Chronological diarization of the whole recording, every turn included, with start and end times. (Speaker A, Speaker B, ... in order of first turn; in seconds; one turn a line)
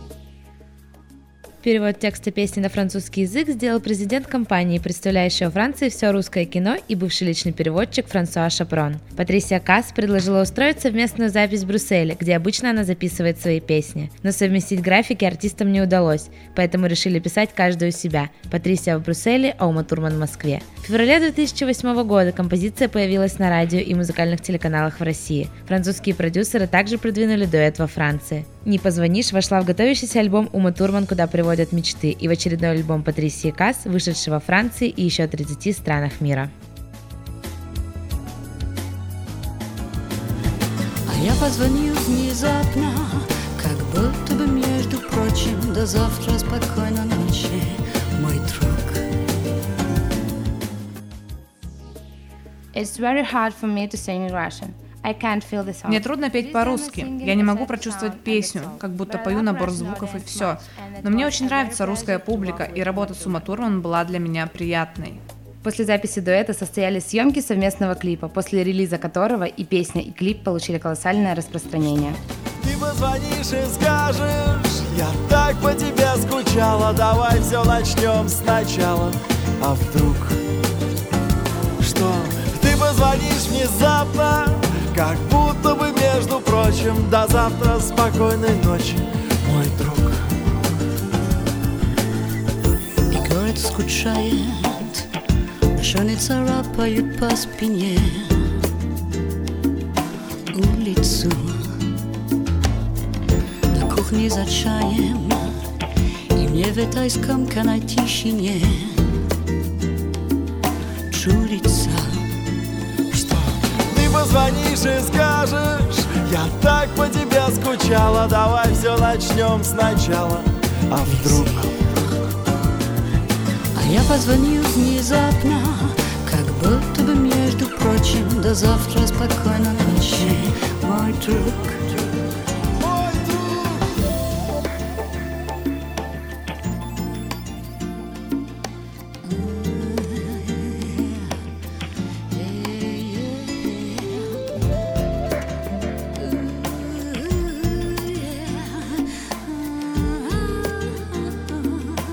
Speaker A: 1.6-36.5
Speaker B: 41.1-49.0
Speaker A: 52.7-63.5
Speaker C: 55.9-65.2
Speaker A: 65.6-72.2
Speaker D: 72.6-80.4
Speaker D: 81.8-90.3
Speaker B: 93.1-95.1
Speaker B: 95.7-98.6
Speaker B: 100.5-101.8
Speaker B: 103.7-105.6
Speaker B: 106.3-109.1
Speaker B: 111.1-112.2
Speaker D: 113.1-121.9
Speaker B: 121.1-121.7
Speaker B: 123.7-132.1
Speaker D: 132.8-133.9
Speaker B: 140.1-141.1
Speaker B: 142.3-143.9
Speaker B: 146.2-151.5